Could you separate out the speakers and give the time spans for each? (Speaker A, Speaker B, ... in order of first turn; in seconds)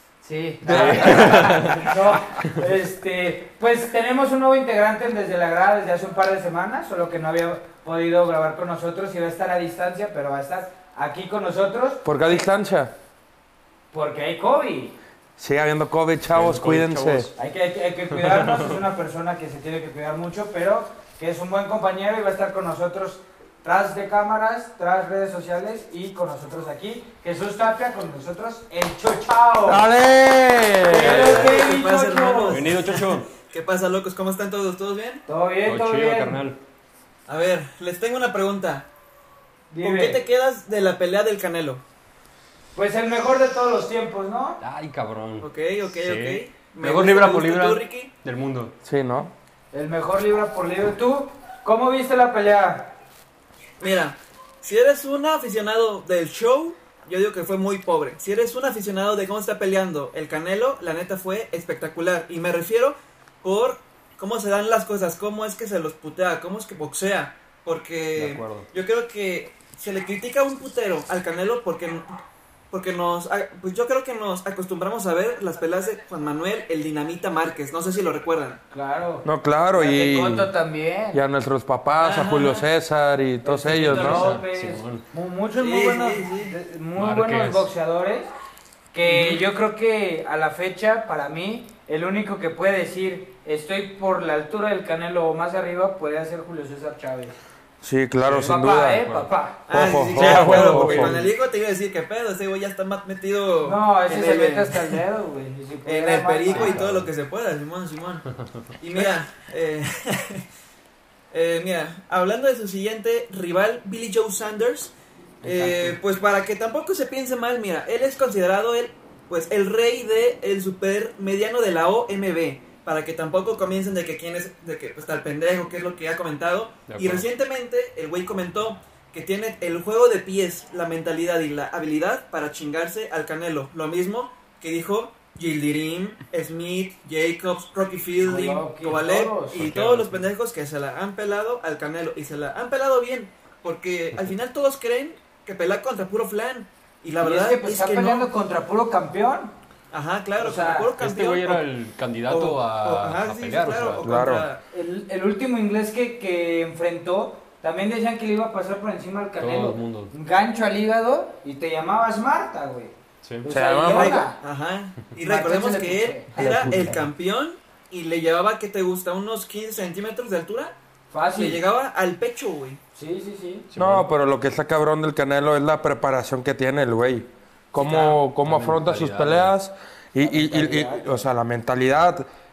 Speaker A: 0.2-12.5, 13.9-14.9, 17.4-29.9, 30.9-32.7, 35.3-36.4, 39.7-40.2, 42.8-44.6, 49.7-52.9, 78.7-81.2, 83.4-88.3, 88.9-97.4, 98.4-99.7, 103.6-106.8, 138.2-139.7, 147.2-149.5, 150.4-150.9, 154.7-164.4, 165.2-166.7, 171.1-171.6, 172.9-173.7, 180.2-181.2
Speaker B: 0.6-2.0, 12.0-12.9, 15.4-17.3, 29.7-31.5, 48.8-49.3, 68.2-68.7, 79.2-80.5, 81.1-84.4, 97.8-99.1, 99.7-101.3, 154.0-154.5, 163.5-164.3, 166.4-167.0, 173.8-182.3
Speaker C: 0.7-1.9, 16.3-17.4, 18.2-18.8, 32.5-33.3, 35.7-36.6, 44.6-48.7, 83.8-85.0, 87.0-87.7, 98.2-99.3, 100.1-101.3, 106.5-107.1, 115.5-116.0, 126.9-127.3, 139.5-140.3, 151.0-154.1, 159.4-160.1, 163.2-163.5, 173.7-174.1, 178.4-179.5
Speaker D: 30.9-35.2, 37.3-38.9, 39.8-41.8, 45.4-48.1, 53.8-72.1, 72.7-78.6, 82.0-82.7, 85.5-86.6, 99.7-105.0, 105.8-108.3, 108.8-110.5, 111.3-114.9, 115.4-148.3, 149.9-151.6, 152.3-154.6, 163.8-170.8, 171.3-172.8, 177.8-178.1